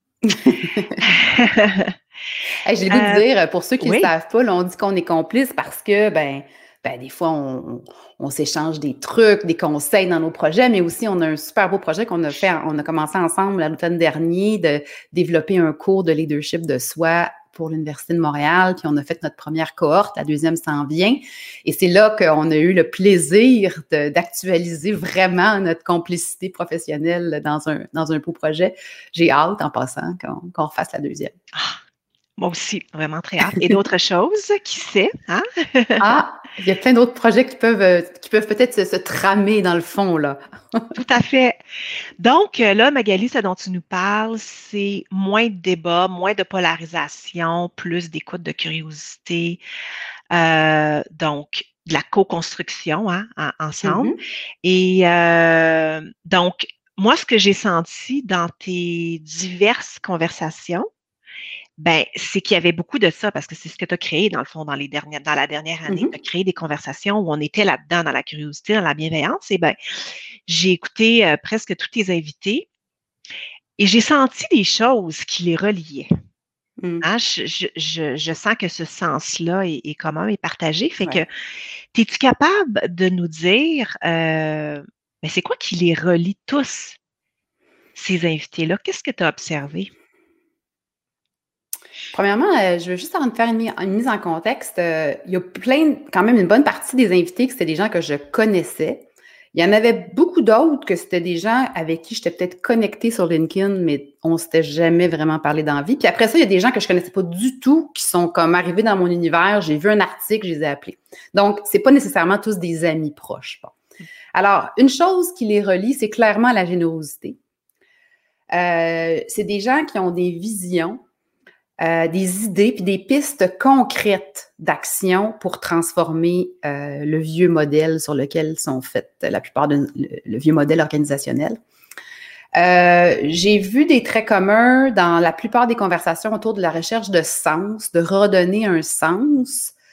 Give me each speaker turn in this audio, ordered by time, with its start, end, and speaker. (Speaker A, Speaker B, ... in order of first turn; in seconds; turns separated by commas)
Speaker A: 0.2-1.1, Speaker B: 1.0-1.9, Speaker A: 2.6-31.3, Speaker B: 2.9-3.2, Speaker B: 3.8-4.1, Speaker B: 32.4-36.0, Speaker A: 36.0-41.0, Speaker B: 41.0-41.6, Speaker B: 42.2-49.6, Speaker B: 50.3-54.1, Speaker A: 53.8-54.2, Speaker B: 54.6-60.9, Speaker B: 61.8-69.8, Speaker B: 70.5-72.7, Speaker B: 73.8-76.1, Speaker A: 76.8-77.0, Speaker B: 77.0-81.3, Speaker B: 81.9-87.0, Speaker B: 88.0-89.9, Speaker A: 92.1-113.8, Speaker A: 114.3-117.4, Speaker A: 118.5-121.0, Speaker A: 121.8-131.6, Speaker A: 132.6-139.7